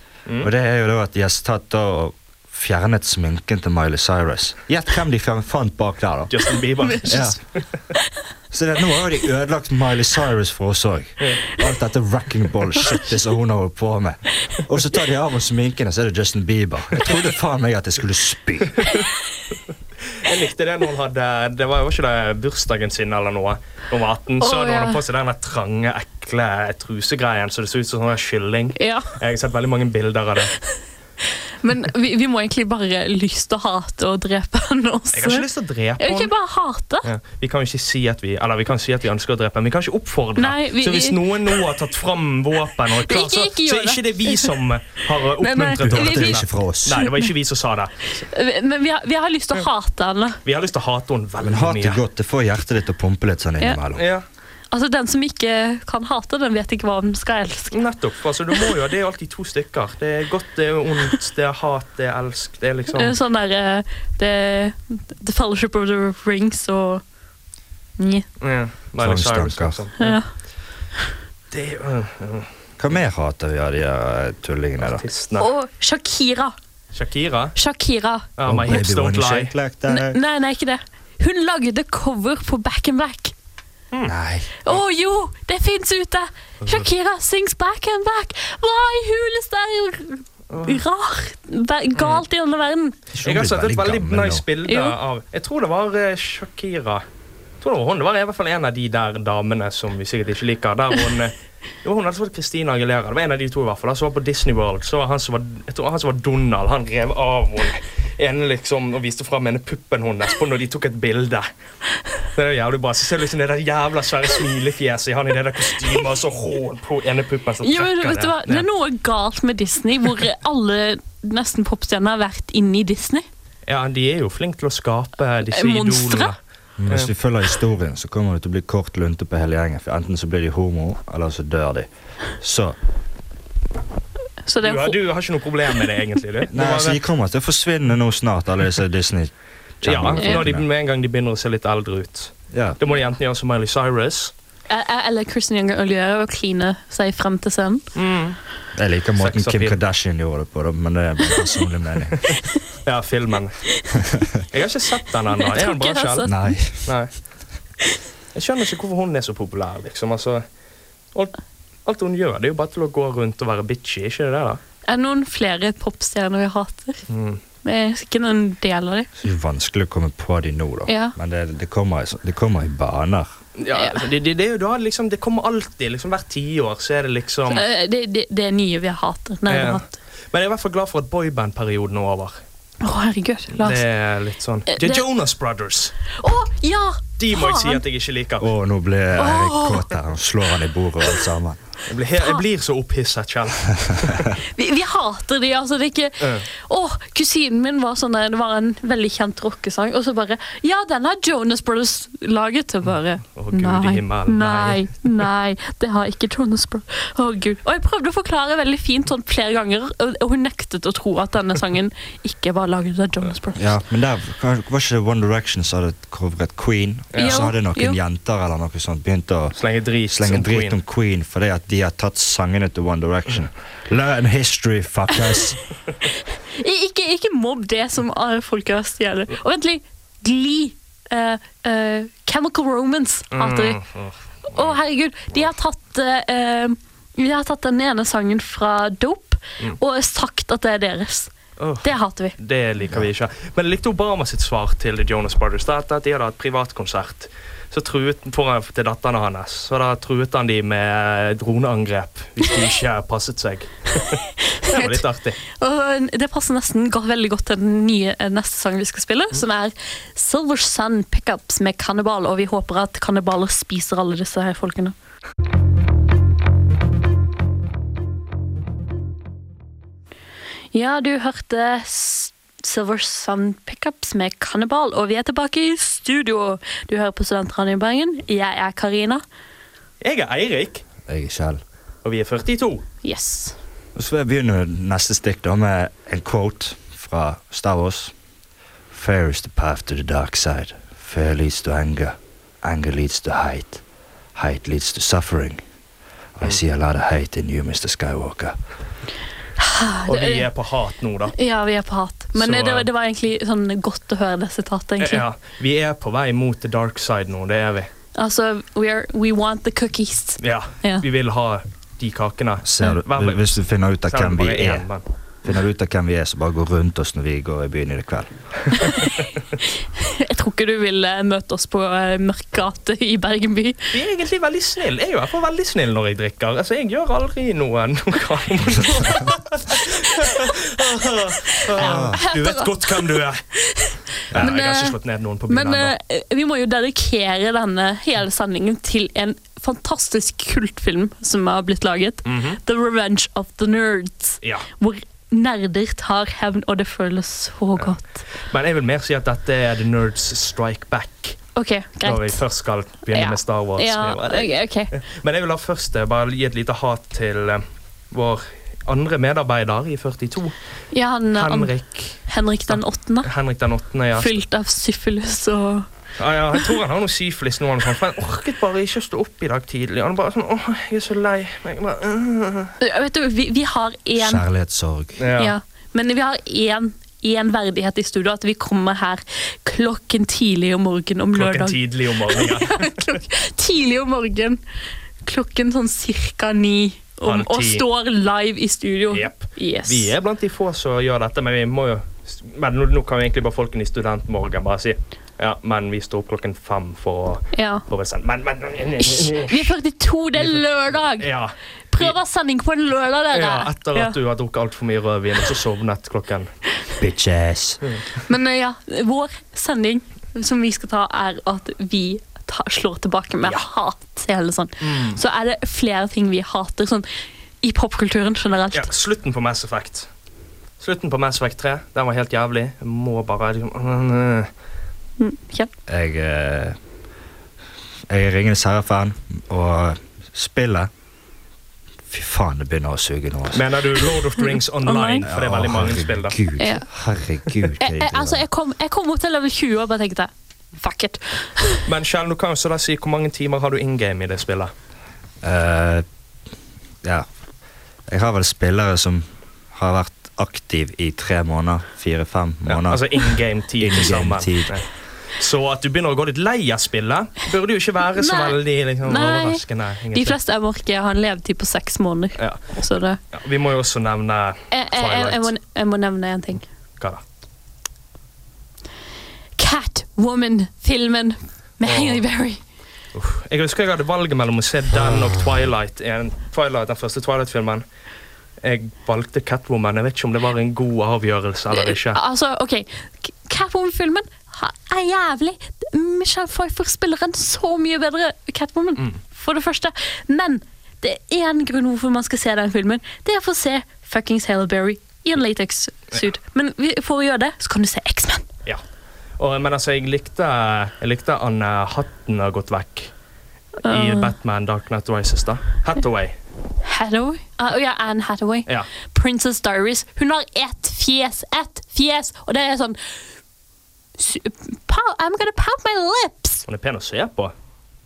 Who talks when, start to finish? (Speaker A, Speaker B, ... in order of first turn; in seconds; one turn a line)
Speaker A: 0.2-0.5
Speaker B: 0.4-6.3
Speaker A: 6.3-7.6
Speaker B: 7.0-7.4
Speaker B: 8.5-18.9
Speaker A: 20.2-30.5
Speaker C: 24.4-25.0
Speaker C: 28.8-29.1
Speaker C: 31.6-35.5
Speaker A: 35.1-36.3
Speaker C: 36.0-37.1
Speaker A: 37.0-48.2
Speaker C: 40.4-41.6
Speaker C: 43.0-44.5
Speaker C: 45.4-47.3
Speaker B: 45.8-47.0
Speaker C: 48.2-50.4
Speaker A: 50.4-52.0
Speaker B: 51.4-54.0
Speaker A: 53.9-54.2
Speaker C: 54.7-57.7
Speaker A: 57.7-63.1
Speaker C: 62.9-67.0
Speaker C: 68.0-68.2
Speaker A: 68.4-70.2
Speaker B: 69.0-69.8
Speaker C: 70.0-70.3
Speaker A: 71.5-72.5
Speaker B: 72.8-75.0
Speaker A: 74.8-75.5
Speaker C: 75.4-76.5
Speaker A: 76.9-77.5
Speaker C: 77.5-78.3
Speaker A: 78.4-79.5
Speaker B: 78.4-80.2
Speaker C: 79.9-83.3
Speaker B: 84.0-84.5
Speaker C: 84.6-93.0
Speaker A: 90.5-90.8
Speaker A: 92.0-92.2
Speaker B: 93.1-94.4
Speaker A: 93.2-97.0
Speaker C: 94.7-94.9
Speaker A: 97.6-111.5
Speaker A: 112.3-118.7
Speaker C: 117.6-123.2
Speaker A: 123.7-126.3
Speaker C: 125.5-126.3
Speaker B: 126.8-132.8
Speaker C: 134.4-135.0
Speaker A: 134.6-137.0
Speaker B: 136.5-140.7
Speaker A: 139.8-144.3
Speaker B: 142.5-142.8
Speaker C: 144.7-147.8
Speaker A: 147.9-148.4
Speaker B: 148.8-152.2
Speaker A: 149.2-149.8
Speaker A: 152.2-153.6
Speaker A: 154.5-157.1
Speaker C: 155.4-156.6
Speaker B: 156.3-156.9
Speaker A: 158.3-160.4
Speaker A: 161.1-164.6
Speaker C: 164.9-167.0
Speaker A: 167.1-167.4
Speaker C: 167.6-169.1
Speaker B: 169.2-173.3
Speaker C: 170.9-171.1
Speaker A: 173.6-177.6
Speaker C: 173.7-174.0
Speaker C: 177.5-179.9
Speaker A: 179.5-182.4
Speaker C: 182.8-183.8
Speaker A: 183.6-185.9
Speaker C: 184.7-185.0
Speaker C: 186.2-187.8
Speaker A: 187.2-188.5
Speaker B: 188.4-191.6
Speaker C: 189.2-189.9
Speaker A: 191.9-194.3
Speaker C: 194.5-213.7
Speaker A: 196.2-196.4
Speaker A: 203.3-204.9
Speaker B: 213.5-219.6
Speaker A: 217.1-217.5
Speaker C: 217.2-218.0
Speaker A: 219.5-220.8
Speaker B: 220.1-225.6
Speaker C: 226.5-233.8
Speaker A: 233.3-234.8
Speaker C: 234.5-241.3
Speaker A: 241.6-255.4
Speaker C: 241.8-242.3
Speaker C: 254.6-255.0
Speaker C: 255.6-264.9
Speaker C: 270.7-279.2
Speaker A: 280.0-280.8
Speaker B: 281.1-281.6
Speaker A: 282.0-282.8
Speaker C: 283.0-283.6
Speaker B: 283.9-288.1
Speaker B: 288.9-293.8
Speaker B: 294.3-295.6
Speaker B: 296.4-298.6
Speaker C: 299.6-300.5
Speaker A: 300.1-301.4
Speaker C: 301.4-305.2
Speaker A: 302.3-302.9
Speaker A: 305.0-307.9
Speaker C: 308.1-311.0
Speaker A: 310.4-315.0
Speaker B: 312.6-314.9
Speaker B: 315.4-318.3
Speaker C: 320.0-323.9
Speaker A: 323.9-333.4
Speaker C: 330.1-330.5
Speaker C: 331.5-333.1
Speaker B: 331.8-332.2
Speaker C: 333.6-335.0
Speaker A: 334.3-335.9
Speaker C: 335.5-348.1
Speaker A: 342.2-342.6
Speaker A: 348.4-351.4
Speaker C: 351.6-352.4
Speaker A: 352.0-360.5
Speaker C: 353.1-354.9
Speaker C: 360.9-361.7
Speaker A: 361.3-364.3
Speaker C: 362.2-363.3
Speaker C: 364.1-365.9
Speaker A: 366.2-372.7
Speaker C: 372.8-374.4
Speaker B: 374.2-375.2
Speaker A: 375.2-375.5
Speaker C: 375.4-384.6
Speaker A: 381.3-383.0
Speaker C: 385.2-390.1
Speaker A: 387.2-387.9
Speaker A: 389.1-399.7
Speaker C: 397.5-397.8
Speaker C: 399.0-401.3
Speaker A: 400.4-402.2
Speaker C: 401.9-404.1
Speaker A: 403.3-406.5
Speaker B: 407.0-407.8
Speaker C: 408.3-417.1
Speaker A: 414.8-415.2
Speaker C: 417.6-418.9
Speaker A: 418.7-420.1
Speaker A: 420.8-424.5
Speaker C: 425.2-425.7
Speaker B: 425.9-426.8
Speaker B: 428.1-430.9
Speaker B: 432.1-433.6
Speaker A: 433.5-436.4
Speaker C: 434.8-435.2
Speaker B: 435.2-438.4
Speaker C: 436.6-436.9
Speaker C: 437.8-441.8
Speaker A: 441.9-444.7
Speaker B: 445.4-446.1
Speaker B: 448.1-454.8
Speaker A: 452.7-454.9
Speaker A: 455.4-460.4
Speaker C: 458.2-459.6
Speaker C: 460.1-463.2
Speaker A: 463.3-465.5
Speaker C: 464.7-466.6
Speaker C: 469.6-472.6
Speaker A: 471.8-472.2
Speaker A: 473.1-477.8
Speaker A: 478.6-482.2
Speaker C: 481.8-498.4
Speaker A: 499.4-503.1
Speaker C: 503.8-504.3
Speaker A: 503.8-506.4
Speaker C: 506.8-513.0
Speaker C: 514.2-516.6
Speaker A: 516.7-517.5